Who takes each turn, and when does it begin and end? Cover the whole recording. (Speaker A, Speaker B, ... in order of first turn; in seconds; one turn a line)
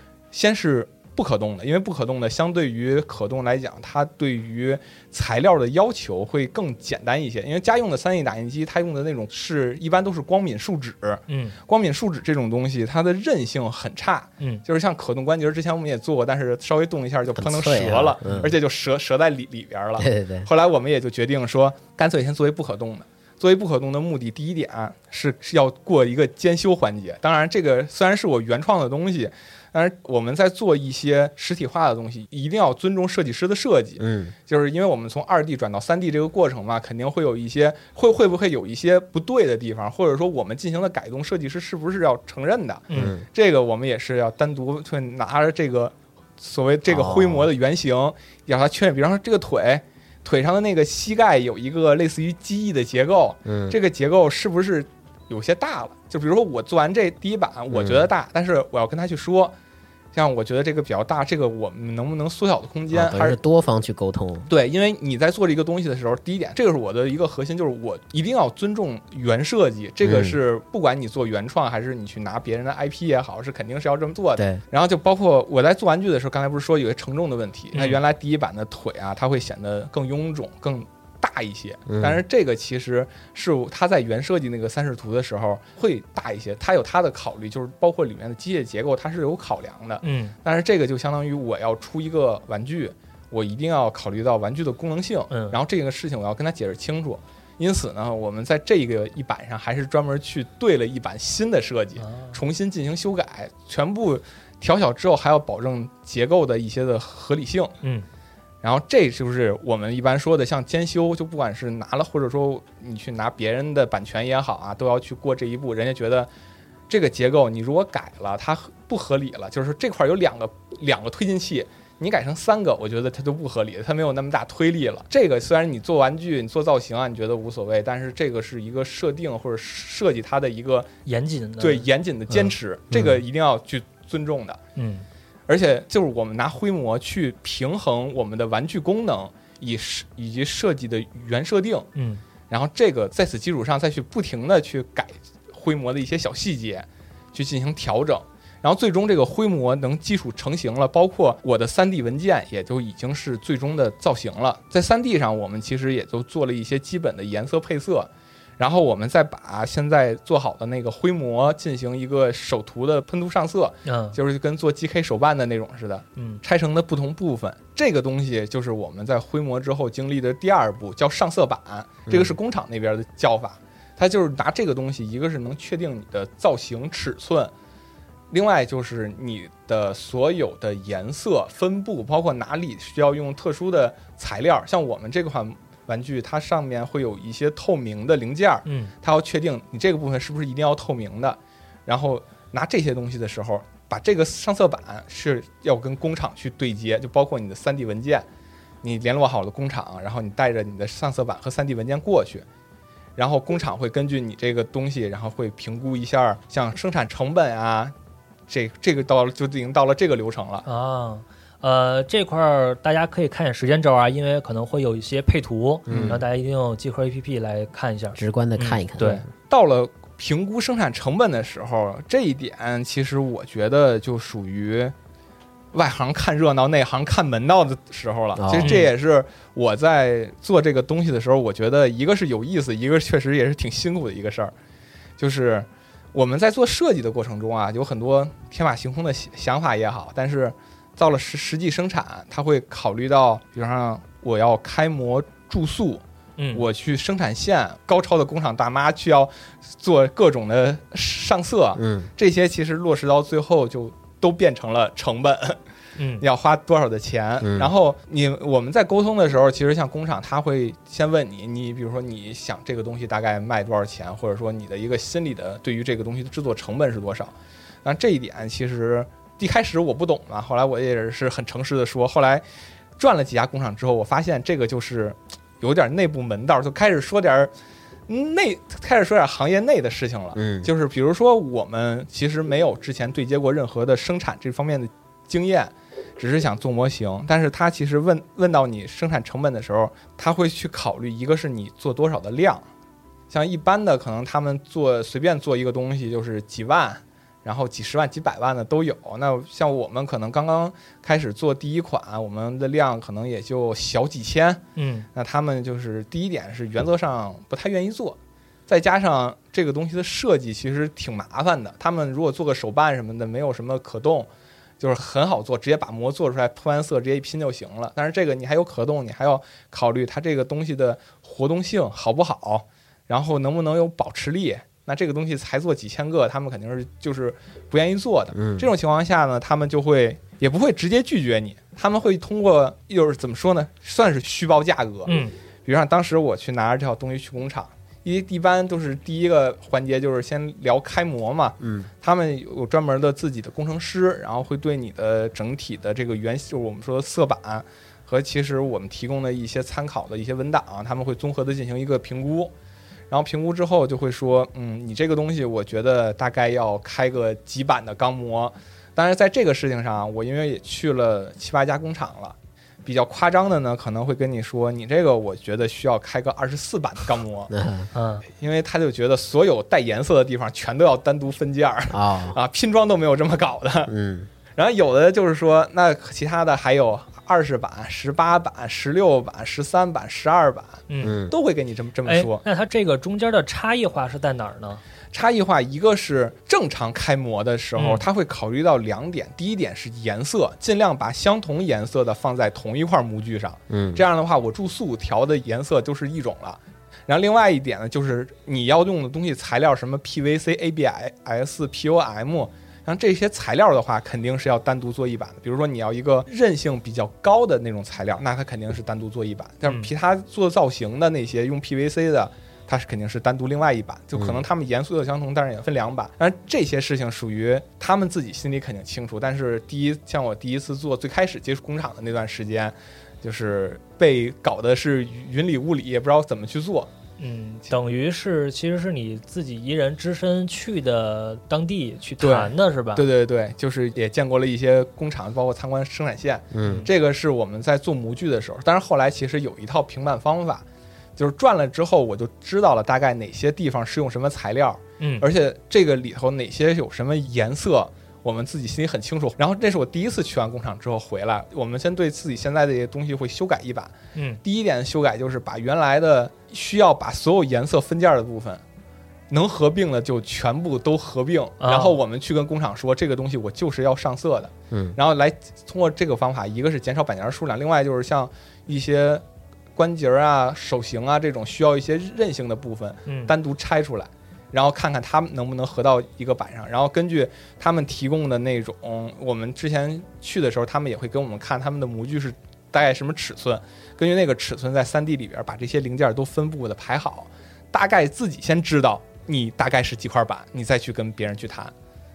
Speaker A: 0.3-59.5
Speaker B: 11.3-11.6
Speaker C: 17.4-18.5
Speaker C: 20.0-20.5
Speaker C: 34.0-34.3
Speaker C: 42.9-43.2
Speaker C: 46.9-47.5
Speaker C: 53.5-53.8
Speaker C: 57.7-58.1
Speaker A: 60.1-63.4
Speaker C: 62.9-64.5
Speaker A: 64.5-107.7
Speaker C: 70.0-70.4
Speaker C: 74.3-74.6
Speaker B: 77.7-78.0
Speaker C: 81.9-82.2
Speaker B: 90.0-90.3
Speaker B: 95.3-95.6
Speaker B: 102.0-102.4
Speaker A: 108.6-116.3
Speaker A: 116.9-130.9
Speaker B: 131.1-132.5
Speaker A: 131.6-134.6
Speaker C: 132.9-133.2
Speaker B: 134.8-135.0
Speaker A: 135.5-141.9
Speaker B: 141.9-142.2
Speaker A: 142.5-177.5
Speaker B: 163.8-164.2
Speaker C: 172.1-172.3
Speaker A: 178.3-198.2
Speaker B: 188.7-188.9
Speaker A: 198.8-202.4
Speaker A: 203.2-207.9
Speaker A: 208.5-210.7
Speaker B: 210.7-219.2
Speaker C: 215.9-216.2
Speaker A: 215.9-216.2
Speaker C: 218.1-219.2
Speaker A: 219.5-224.9
Speaker A: 225.7-234.5
Speaker C: 228.3-228.8
Speaker B: 228.6-228.9
Speaker A: 235.2-246.0
Speaker B: 246.4-246.6
Speaker A: 246.5-255.6
Speaker C: 251.8-252.1
Speaker B: 256.0-256.2
Speaker A: 256.2-267.3
Speaker C: 257.4-257.7
Speaker A: 267.8-272.4
Speaker A: 273.0-277.5
Speaker A: 278.1-292.6
Speaker C: 280.3-280.7
Speaker A: 293.3-304.6
Speaker B: 304.8-305.1
Speaker A: 305.1-308.2
Speaker A: 308.7-314.3
Speaker A: 314.8-335.1
Speaker C: 328.3-328.7
Speaker B: 335.1-335.3
Speaker A: 335.6-352.5
Speaker C: 341.6-341.9
Speaker A: 353.1-367.5
Speaker C: 367.5-367.9
Speaker B: 367.9-368.2
Speaker A: 368.3-373.9
Speaker C: 371.9-372.4
Speaker C: 373.9-374.3
Speaker A: 374.6-382.4
Speaker B: 380.9-381.1
Speaker C: 381.0-381.3
Speaker B: 382.1-384.8
Speaker A: 385.1-426.9
Speaker B: 387.8-388.0
Speaker C: 393.7-394.0
Speaker C: 414.1-414.4
Speaker B: 427.2-433.0
Speaker A: 432.2-440.6
Speaker C: 436.5-436.9
Speaker B: 436.6-436.9
Speaker A: 441.2-458.6
Speaker B: 445.0-445.2
Speaker B: 454.1-454.4
Speaker A: 459.3-469.2
Speaker B: 461.6-462.0
Speaker C: 464.7-464.9
Speaker A: 469.8-491.7
Speaker B: 473.1-473.3